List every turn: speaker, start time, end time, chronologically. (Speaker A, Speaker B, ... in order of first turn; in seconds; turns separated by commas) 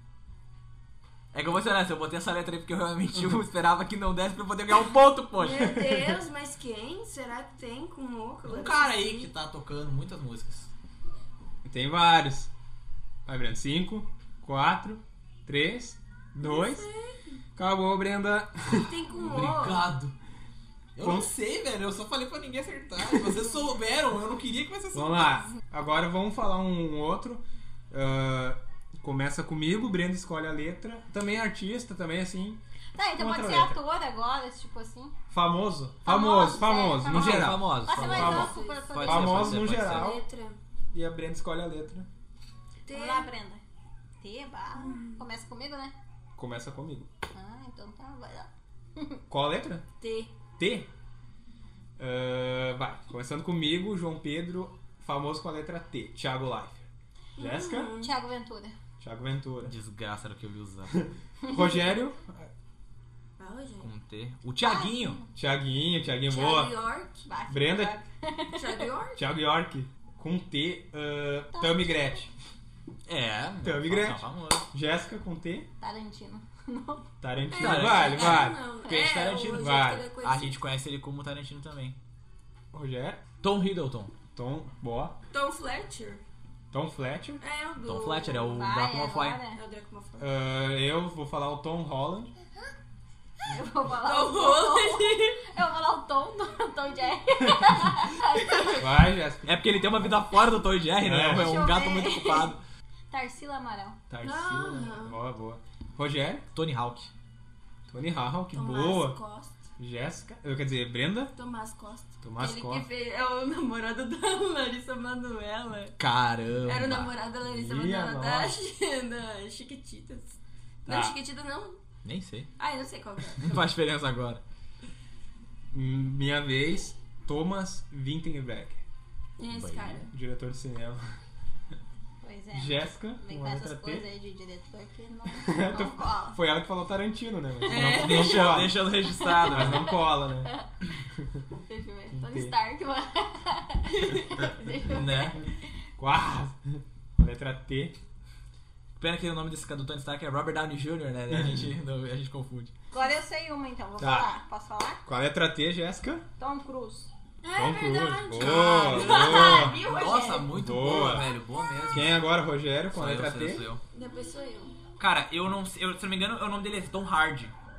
Speaker A: 1.3-5.8, Speaker B: 5.4-9.3, Speaker A: 8.4-10.7, Speaker C: 11.6-12.5, Speaker C: 13.2-16.9, Speaker B: 16.4-17.3, Speaker C: 17.6-18.9, Speaker B: 18.7-19.9, Speaker A: 19.2-20.1, Speaker A: 20.9-25.4, Speaker C: 21.0-21.3, Speaker C: 24.9-32.6, Speaker D: 32.9-35.1, Speaker C: 33.2-33.8, Speaker C: 35.3-40.2, Speaker D: 36.0-39.7, Speaker B: 36.3-36.9, Speaker A: 37.0-40.2, Speaker B: 37.9-39.0, Speaker B: 39.7-40.6, Speaker C: 40.9-42.1, Speaker B: 42.9-43.3, Speaker D: 42.9-43.6, Speaker D: 44.2-45.9, Speaker B: 44.8-45.2, Speaker C: 46.4-47.1, Speaker D: 47.3-49.2, Speaker C: 49.3-49.9, Speaker B: 50.0-50.3, Speaker C: 50.6-50.9, Speaker C: 52.0-57.9, Speaker B: 57.4-58.1, Speaker D: 58.0-58.8, Speaker C: 59.0-59.7, Speaker A: 59.7-60.9, Speaker C: 61.0-62.5, Speaker B: 63.4-63.9, Speaker A: 63.8-65.2, Speaker D: 64.6-65.3, Speaker C: 65.3-66.7, Speaker B: 66.3-67.2, Speaker D: 67.2-68.8, Speaker C: 67.5-68.0, Speaker B: 68.5-69.2, Speaker C: 69.1-72.3, Speaker D: 71.5-71.9, Speaker A: 73.1-74.7, Speaker C: 73.6-74.2, Speaker C: 74.7-75.7, Speaker D: 75.8-77.1, Speaker C: 77.2-78.6, Speaker A: 77.5-82.0, Speaker B: 77.7-80.5, Speaker C: 79.6-80.1, Speaker C: 82.7-83.2, Speaker A: 83.4-84.1, Speaker C: 84.3-85.2, Speaker B: 85.3-86.2, Speaker C: 86.7-87.4, Speaker B: 87.4-88.6, Speaker A: 87.8-89.4, Speaker D: 88.5-89.6, Speaker B: 89.5-90.3, Speaker C: 90.2-92.3, Speaker D: 93.4-98.8, Speaker B: 93.9-95.4, Speaker C: 98.8-99.6, Speaker A: 99.4-102.6, Speaker C: 101.0-101.5, Speaker D: 101.3-102.5, Speaker D: 103.1-104.0, Speaker C: 104.1-106.5, Speaker B: 104.2-105.2, Speaker A: 106.5-107.1, Speaker C: 107.9-109.2, Speaker B: 108.5-109.6, Speaker C: 109.8-111.3, Speaker B: 111.3-115.9, Speaker C: 112.2-112.8, Speaker A: 116.0-117.1, Speaker B: 116.7-121.8, Speaker C: 117.4-118.6, Speaker C: 120.9-121.2, Speaker A: 122.0-122.5, Speaker B: 122.6-123.5, Speaker A: 123.4-124.4, Speaker C: 125.7-128.8, Speaker B: 129.4-130.1, Speaker A: 129.4-130.0, Speaker C: 130.1-131.0, Speaker D: 132.2-136.4, Speaker C: 132.5-134.1, Speaker C: 135.3-138.9, Speaker D: 137.7-138.3, Speaker A: 137.7-139.9, Speaker C: 139.5-140.5, Speaker D: 140.2-140.7, Speaker D: 141.7-145.4, Speaker C: 142.1-142.5, Speaker A: 144.8-145.3, Speaker C: 146.0-147.9, Speaker A: 149.0-152.7, Speaker D: 152.9-155.0, Speaker C: 154.0-154.3, Speaker C: 155.0-156.3, Speaker D: 156.4-157.1, Speaker B: 157.4-160.5, Speaker C: 157.6-159.8, Speaker A: 158.4-162.2, Speaker C: 160.5-161.3, Speaker C: 161.9-163.6, Speaker A: 162.9-163.8, Speaker B: 163.9-164.8, Speaker A: 165.0-167.5